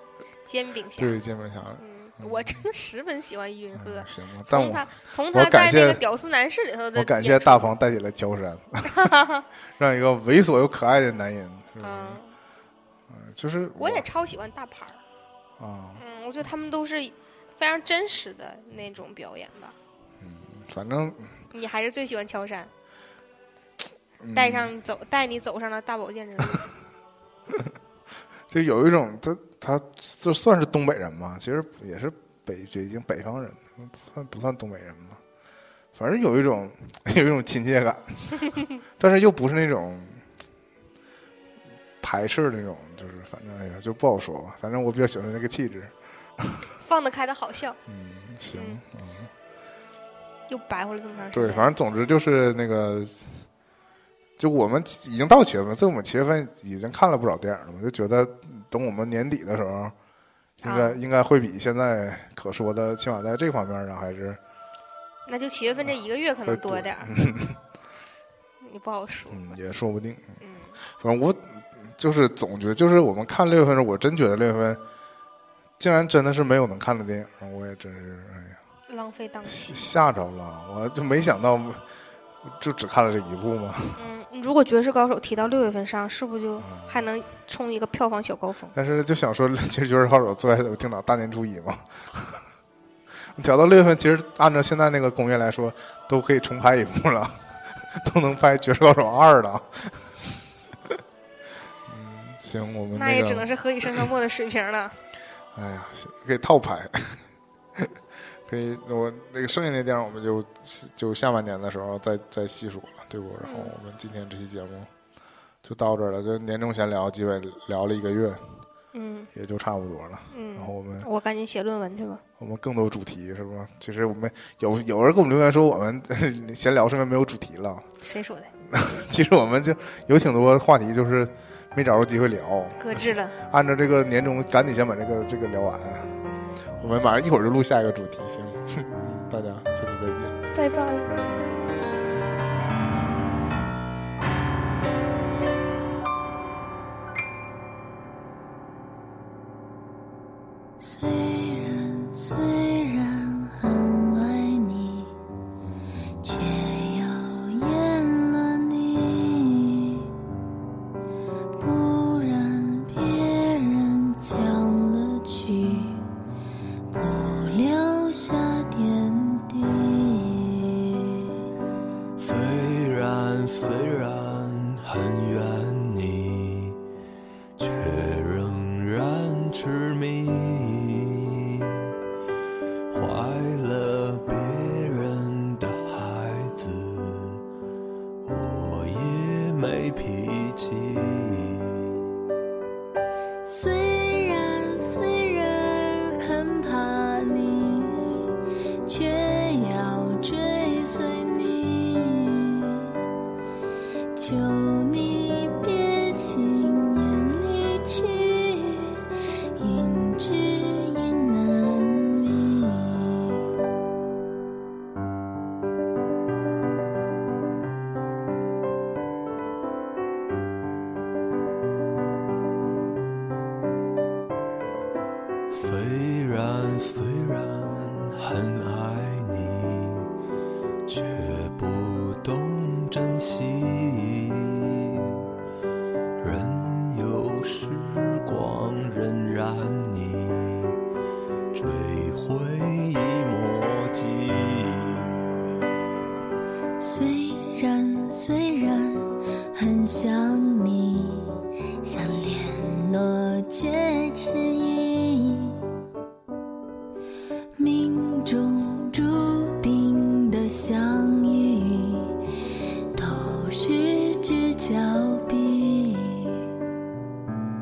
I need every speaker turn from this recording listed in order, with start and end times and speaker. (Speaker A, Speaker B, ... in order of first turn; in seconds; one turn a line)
Speaker A: 0.5-1.2
Speaker B: 1.0-2.6
Speaker A: 1.8-7.7
Speaker B: 3.8-6.0
Speaker B: 7.0-9.1
Speaker A: 8.9-9.4
Speaker B: 9.8-12.2
Speaker A: 11.8-12.3
Speaker B: 13.1-14.1
Speaker A: 13.8-15.0
Speaker B: 15.6-16.0
Speaker A: 16.0-19.8
Speaker B: 20.2-21.4
Speaker A: 21.5-22.7
Speaker B: 24.2-24.7
Speaker A: 24.3-26.7
Speaker B: 28.5-35.2
Speaker B: 36.0-38.5
Speaker B: 39.0-40.2
Speaker B: 42.0-46.7
Speaker A: 46.8-47.8
Speaker B: 47.9-49.3
Speaker A: 48.5-48.8
Speaker A: 50.5-51.7
Speaker B: 51.3-53.5
Speaker B: 54.4-59.9
Speaker B: 60.6-64.4
Speaker A: 60.6-61.0
Speaker A: 65.3-67.2
Speaker B: 66.5-67.6
Speaker A: 68.6-69.6
Speaker B: 69.3-70.4
Speaker A: 70.4-70.8
Speaker B: 71.0-74.8
Speaker B: 75.8-78.6
Speaker A: 78.9-79.9
Speaker B: 79.5-81.8
Speaker B: 82.5-84.0
Speaker A: 84.0-88.7
Speaker B: 86.6-87.0
Speaker B: 88.7-92.4
Speaker B: 93.4-100.4
Speaker B: 101.9-103.5
Speaker A: 102.9-105.0
Speaker B: 105.5-107.2
Speaker B: 108.5-114.9
Speaker A: 113.4-113.7
Speaker B: 115.6-118.6
Speaker A: 118.9-119.3
Speaker B: 119.3-121.1
Speaker A: 120.3-122.2
Speaker B: 122.4-127.9
Speaker A: 128.0-128.5
Speaker B: 128.7-136.2
Speaker A: 132.8-133.4
Speaker B: 136.8-140.4
Speaker A: 140.6-141.1
Speaker B: 141.1-141.5
Speaker C: 150.8-155.2
Speaker C: 156.2-160.1
Speaker C: 161.6-166.0
Speaker C: 166.9-171.3
Speaker D: 172.2-176.8
Speaker D: 177.6-181.9
Speaker D: 182.9-187.4
Speaker D: 188.2-192.0
Speaker C: 193.4-203.0
Speaker C: 204.2-209.0
Speaker C: 209.6-213.5
Speaker D: 225.5-230.1
Speaker D: 230.9-235.2
Speaker D: 236.2-240.8
Speaker D: 241.5-245.5
Speaker C: 246.8-255.6
Speaker C: 257.6-262.2
Speaker C: 262.9-266.5